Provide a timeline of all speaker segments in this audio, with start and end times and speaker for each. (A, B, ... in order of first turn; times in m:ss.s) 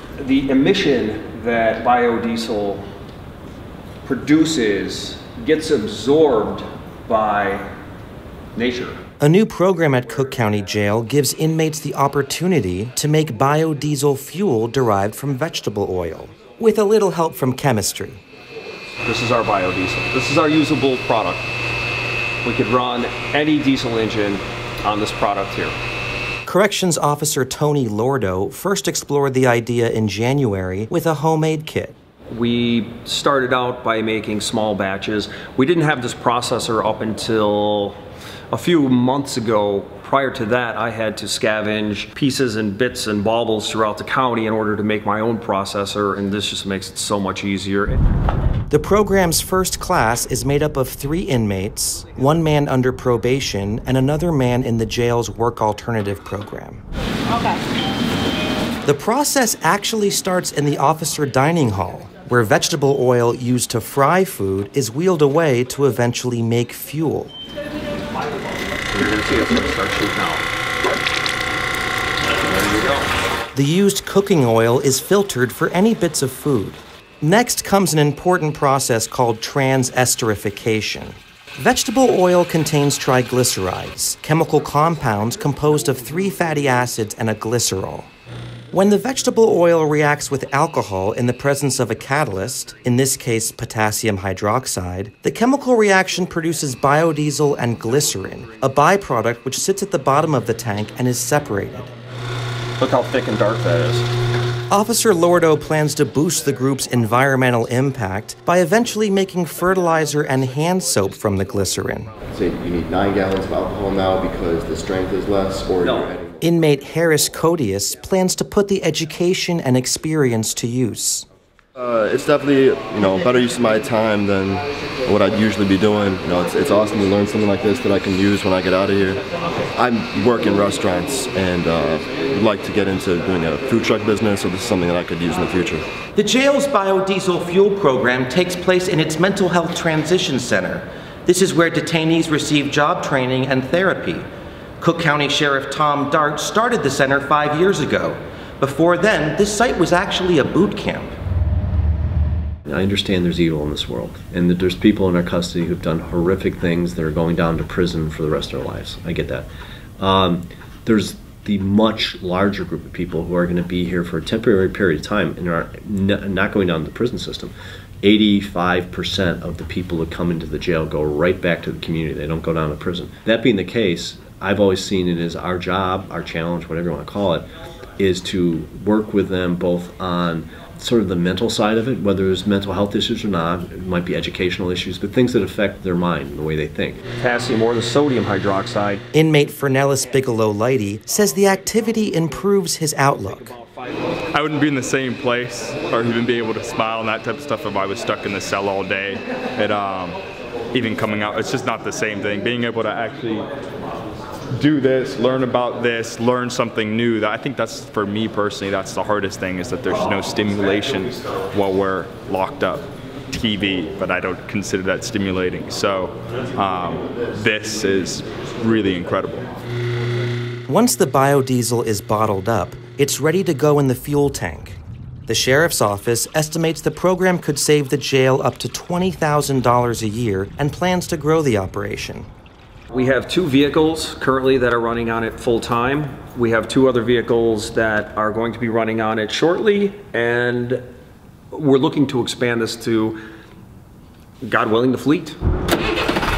0:00.2-0:02.8 A
0:04.0-0:07.7 A
0:08.6-0:09.0 A
0:09.2-0:18.2 B
0:19.0-0:21.5 A
0:22.4-0:25.8 A
0:26.5-0:32.0 B
0:32.3-0:38.0 A
0:38.5-0:48.0 A
0:48.7-0:56.8 B
0:58.8-1:07.3 B
1:08.3-1:10.4 A
1:12.4-1:13.1 A
1:13.5-1:28.1 B
1:28.7-1:41.9 B
1:42.8-1:44.1 A
1:44.7-1:52.1 B
1:52.3-1:56.4 C
1:55.8-1:56.1 A
1:56.4-2:01.3 B
2:01.8-2:09.2 C
2:09.8-2:15.8 C
2:16.2-2:24.3 B
2:24.8-2:31.1 B
2:32.7-2:39.5 D
2:40.0-3:07.0 D
3:07.2-3:09.0 A
3:09.1-3:13.6 B
3:13.5-3:14.2 A
3:14.3-3:20.2 E
3:20.7-3:23.5 E
3:24.6-3:39.5 E
3:40.7-3:52.3 B
3:52.9-4:00.8 A
4:01.5-4:03.2 A
4:04.4-4:05.4 A